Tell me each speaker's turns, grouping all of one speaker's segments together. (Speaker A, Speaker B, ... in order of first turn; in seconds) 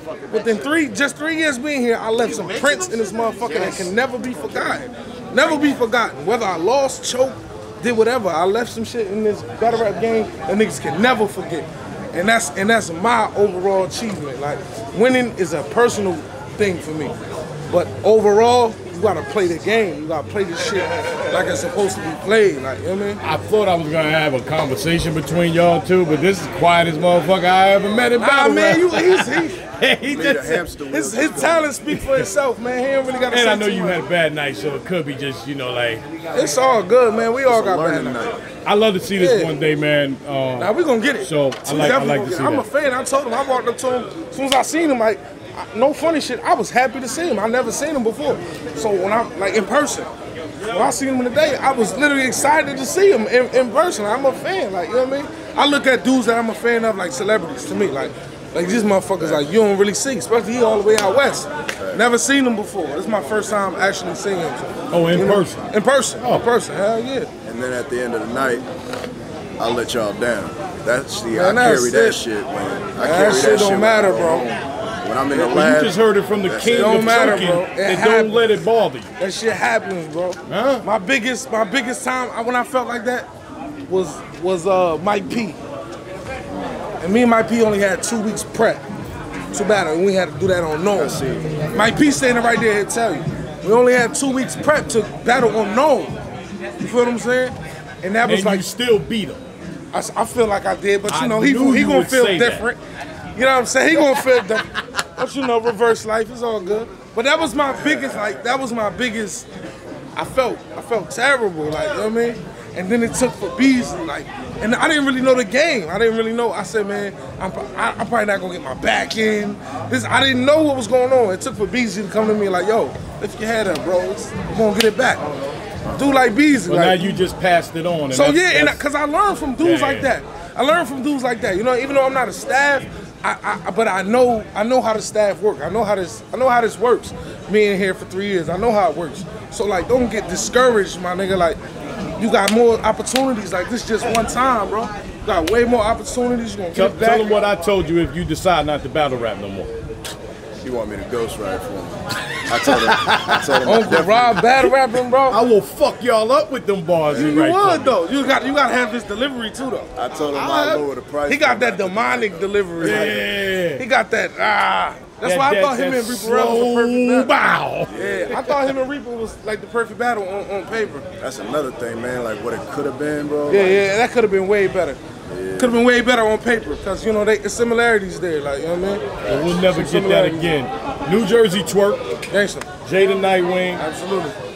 Speaker A: 0.3-17.1, 17.7-23.2, 28.2-29.6, 30.9-34.0, 36.3-38.2, 39.1-39.5, 40.6-50.1, 50.6-67.3, 71.3-72.2, 73.0-74.5, 76.7-78.5, 79.2-83.3, 83.9-85.6, 87.0-88.8, 89.5-96.1, 96.8-98.7, 99.9-102.8, 103.3-109.5, 110.1-125.2, 125.9-127.2, 128.1-141.6, 142.2-147.3, 153.6-155.4, 157.1-167.3, 167.9-171.1, 173.5-175.0, 175.6-180.6, 182.3-182.7, 183.7-184.3
Speaker B: 23.2-30.6, 31.9-32.3, 33.3-36.0, 38.6-42.7, 64.9-65.6, 66.2-66.5, 75.3-79.1, 80.5-80.8, 98.2-99.4, 101.1-102.7, 126.7-128.8, 129.6-130.1, 146.7-149.7, 155.3-158.0, 162.8-163.8, 165.2-168.5, 179.3-182.0, 182.8-183.8
Speaker C: 30.0-31.8, 37.5-38.4, 67.4-68.7, 69.6-77.5, 86.5-86.8, 89.3-89.7, 90.9-91.7, 150.6-154.5, 157.1-157.3, 159.9-163.1, 167.9-168.4, 171.2-173.9, 175.2-175.8, 179.2-179.6